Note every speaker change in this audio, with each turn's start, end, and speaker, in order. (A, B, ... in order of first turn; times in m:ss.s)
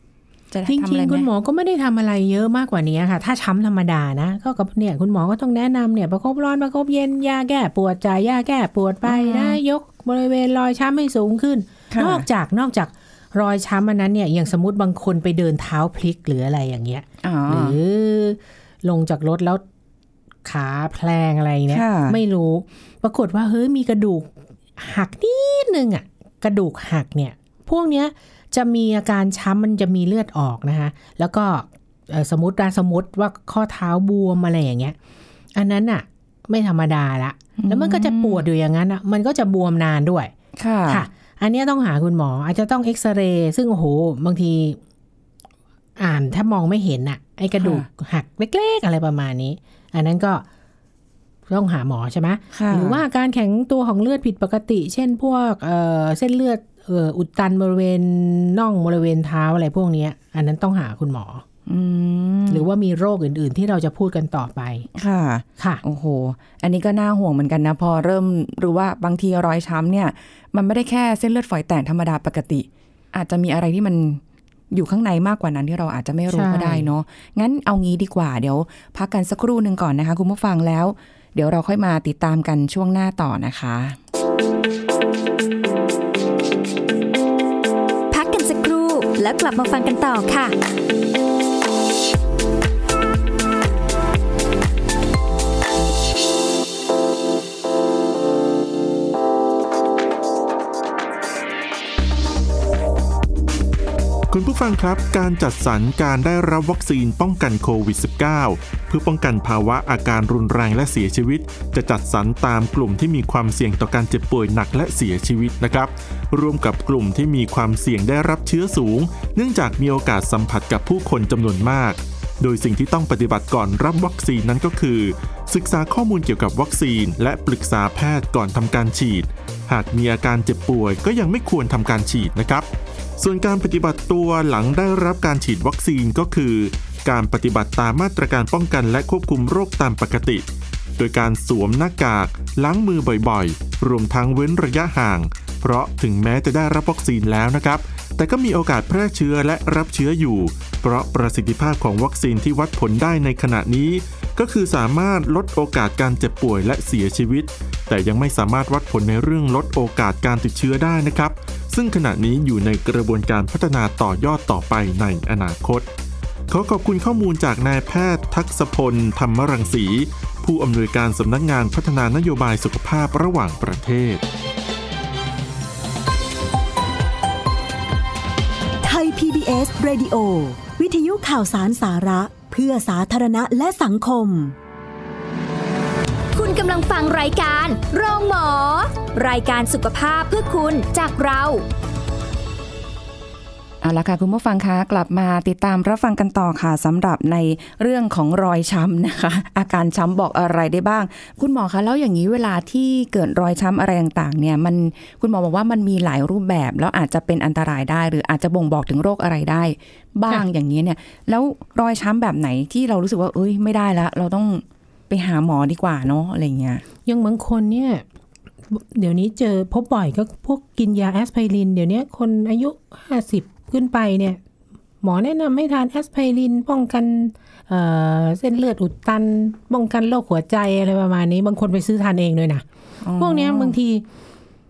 0:00.5-0:01.3 A
0:00.7-0:19.6 B
0:09.1-0:09.6 A
0:11.9-0:12.2 A
0:17.2-0:17.8 A
0:20.4-0:35.0 B
0:21.7-0:22.2 A
0:35.6-0:40.3 B
0:37.6-0:38.4 A
0:40.6-0:41.0 A
0:40.9-0:44.8 B
0:46.0-0:50.4 B
0:47.6-0:47.9 A
0:51.5-1:01.4 B
0:52.5-0:53.0 A
1:01.7-1:02.7 A
1:02.5-1:04.9 B
1:05.0-1:24.0 A
1:16.3-1:16.9 B
1:28.1-1:30.5 C
1:44.3-2:12.7 D
2:13.2-2:20.4 D
2:21.0-2:45.9 D
2:46.5-2:54.2 D
2:58.8-3:04.6 E
3:06.3-3:11.6 C
3:13.8-3:36.8 A
3:37.0-3:38.0 B
3:38.7-3:44.4 B
3:45.0-3:52.6 B
3:53.0-3:53.8 A
3:53.2-3:54.0 B